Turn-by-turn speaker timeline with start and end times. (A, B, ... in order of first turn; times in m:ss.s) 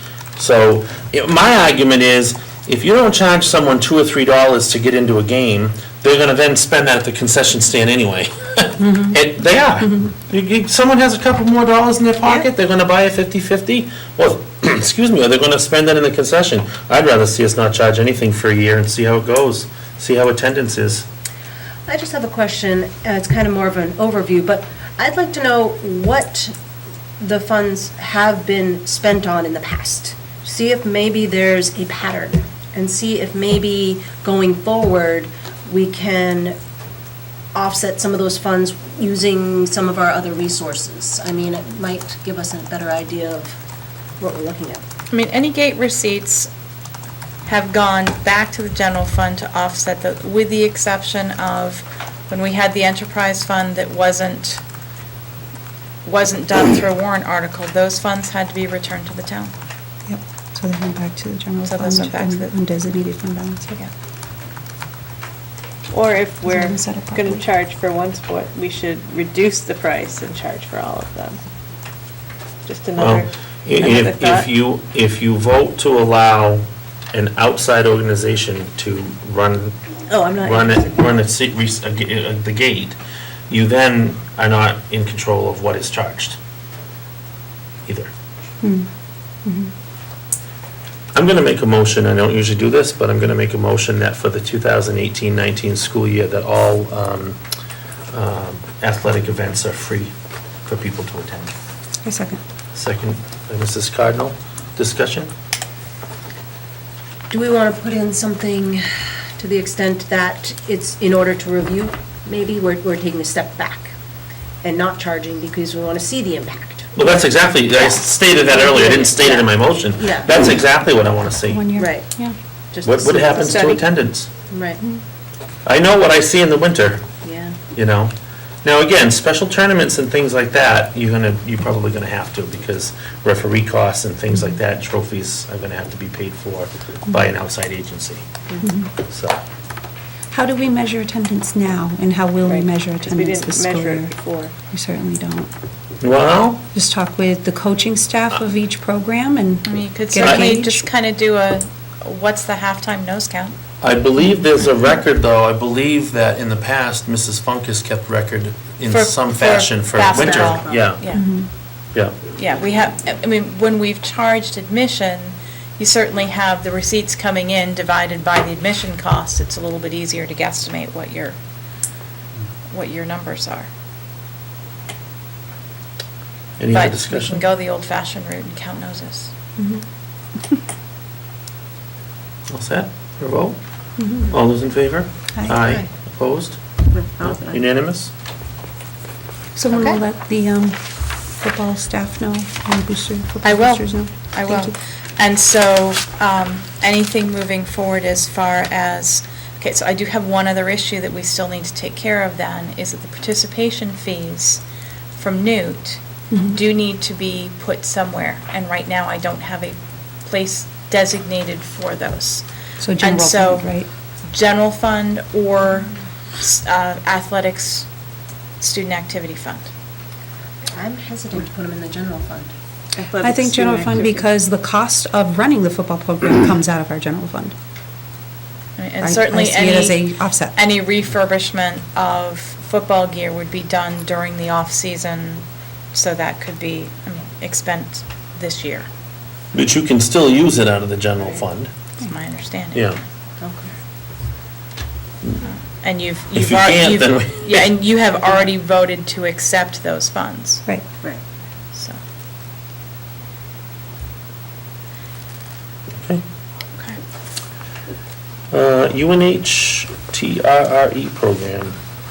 0:00.4-0:21.1 A
0:08.8-0:09.2 B
0:21.9-0:26.5 C
0:27.2-0:36.6 C
0:37.5-0:43.6 C
0:44.2-0:44.8 C
0:45.1-0:46.5 D
0:47.4-0:54.6 D
0:56.0-0:59.5 D
1:00.1-1:03.8 B
1:01.6-1:02.5 D
1:05.9-1:11.4 E
1:06.4-1:07.4 B
1:12.7-1:14.5 E
1:13.0-1:19.8 A
1:20.1-1:21.0 C
1:20.4-1:23.0 A
1:23.5-1:26.4 A
1:28.6-1:28.9 B
1:29.4-1:29.7 B
1:31.1-1:37.4 A
1:38.1-1:40.1 A
1:40.7-1:41.5 A
1:42.0-1:42.4 B
1:42.7-1:45.3 A
1:47.3-1:48.8 C
1:49.4-1:53.9 C
1:54.6-1:57.0 C
1:57.0-2:01.7 A
1:57.7-2:00.3 C
2:01.5-2:02.4 B
2:01.8-2:02.1 C
2:02.7-2:03.8 C
2:02.8-2:04.3 A
2:03.4-2:03.8 E
2:04.5-2:04.8 C
2:05.6-2:07.1 A
2:07.2-2:07.6 C
2:07.7-2:18.2 A
2:18.6-2:18.9 B
2:19.0-2:19.4 A
2:20.3-2:25.5 B
2:22.5-2:24.5 E
2:26.0-2:26.6 A
2:26.7-2:30.8 B
2:29.7-2:33.6 D
2:33.8-2:41.0 A
2:38.9-2:41.2 D
2:40.1-2:40.9 C
2:41.1-2:41.5 B
2:42.4-2:51.4 D
2:52.7-2:53.7 D
2:56.6-2:57.4 A
2:56.7-2:59.3 D
3:02.5-3:03.6 A
3:04.0-3:04.3 B
3:04.2-3:06.6 A
3:05.6-3:05.9 C
3:07.2-3:08.1 A
3:09.6-3:14.8 B
3:09.7-3:10.0 C
3:13.4-3:24.6 D
3:25.1-3:26.0 D
3:26.3-3:26.6 B
3:26.5-3:32.4 D
3:32.8-3:33.9 B
3:33.0-3:33.7 D
3:34.3-3:37.9 D
3:38.6-3:39.7 D
3:40.7-3:42.5 C
3:43.0-3:44.2 E
3:43.2-3:47.5 B
3:48.8-3:58.9 D
3:49.0-3:50.6 B
3:59.5-4:01.7 A
4:02.0-4:02.9 D
4:02.7-4:03.0 A
4:03.4-4:03.7 C
4:05.4-4:10.6 D
4:06.4-4:07.7 A
4:11.7-4:12.0 D
4:18.5-4:21.8 A